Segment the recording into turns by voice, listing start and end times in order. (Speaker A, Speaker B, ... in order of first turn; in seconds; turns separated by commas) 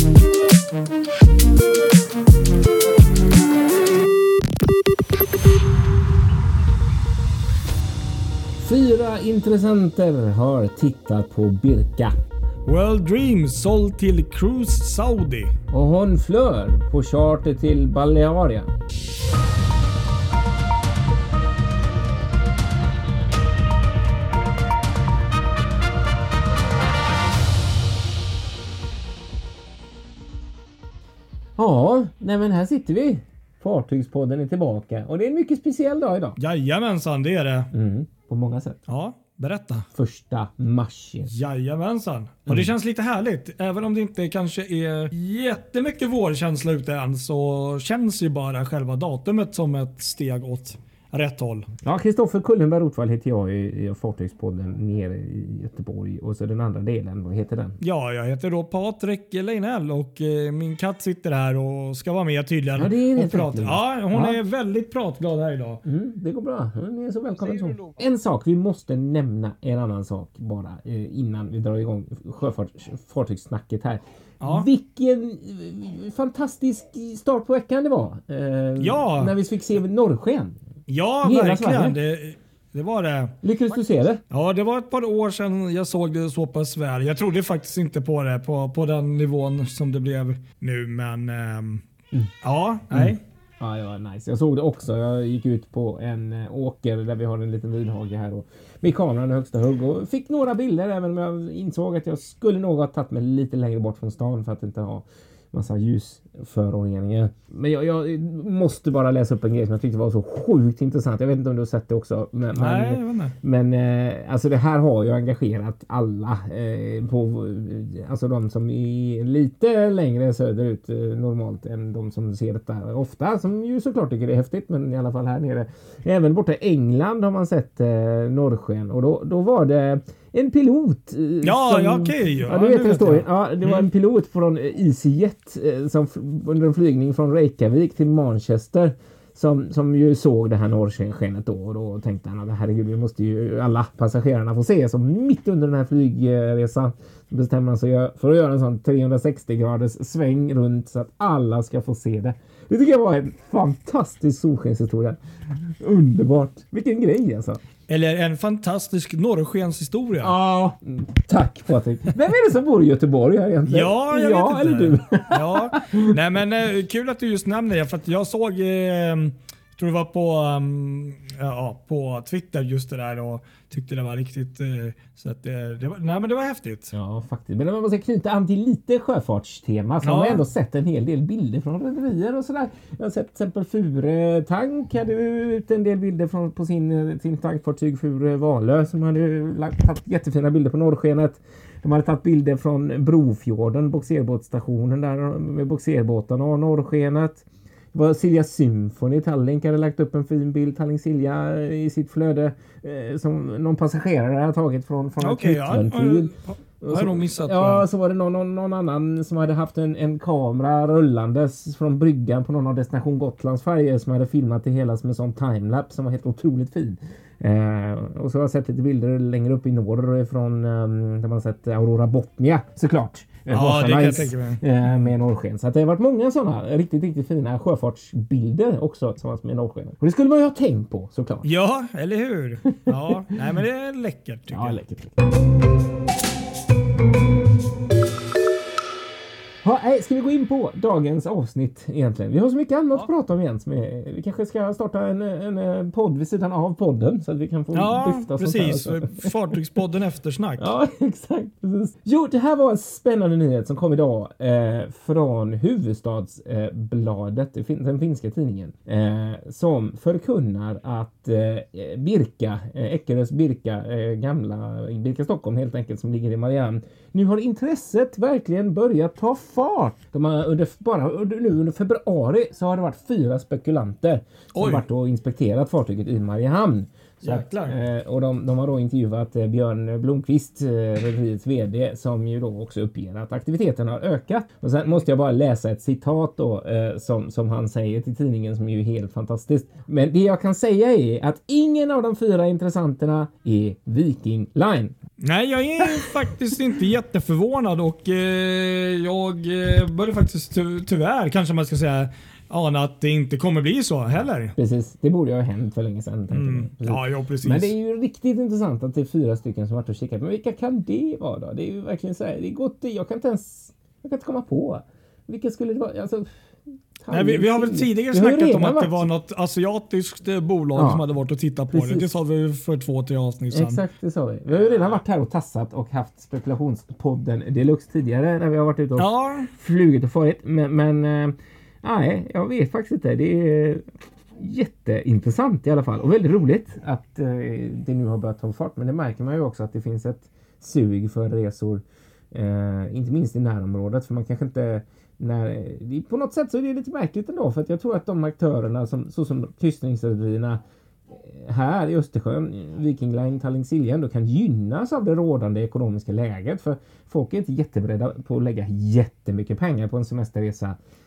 Speaker A: 8.6-12.2, Speaker B: 12.7-15.6, Speaker A: 15.7-18.7, Speaker A: 31.6-36.4, Speaker B: 36.4-37.7, Speaker A: 37.7-38.8, Speaker B: 38.9-39.9, Speaker A: 39.9-41.3, Speaker B: 41.2-51.7, Speaker A: 51.8-57.8, Speaker B: 57.8-65.8, Speaker A: 62.8-64.4, Speaker A: 65.8-80.6, Speaker B: 74.4-74.7, Speaker B: 78.8-79.4, Speaker B: 80.9-83.4, Speaker A: 81.2-82.0, Speaker A: 83.4-84.2, Speaker B: 84.3-91.8, Speaker B: 92.4-93.2, Speaker A: 92.9-155.2, Speaker B: 112.5-113.4, Speaker B: 131.4-133.9, Speaker A: 155.7-157.6, Speaker B: 157.9-160.4, Speaker A: 160.2-166.1, Speaker B: 163.7-176.9, Speaker A: 176.9-231.5, Speaker B: 180.0-180.5, Speaker B: 205.2-207.9, Speaker B: 223.5-225.1, Speaker B: 231.4-234.8, Speaker A: 232.9-233.4, Speaker A: 234.5-235.2, Speaker A: 239.6-249.3, Speaker B: 247.7-250.8, Speaker A: 250.6-294.9, Speaker B: 274.6-274.9, Speaker B: 277.2-277.8, Speaker B: 295.2-304.6, Speaker A: 295.8-296.1, Speaker A: 304.6-316.3, Speaker B: 306.3-307.8, Speaker A: 317.0-319.1, Speaker B: 317.1-323.8, Speaker A: 320.8-321.1, Speaker A: 321.7-322.1, Speaker A: 323.5-333.8, Speaker B: 324.5-325.0, Speaker B: 329.0-329.5, Speaker A: 334.4-360.8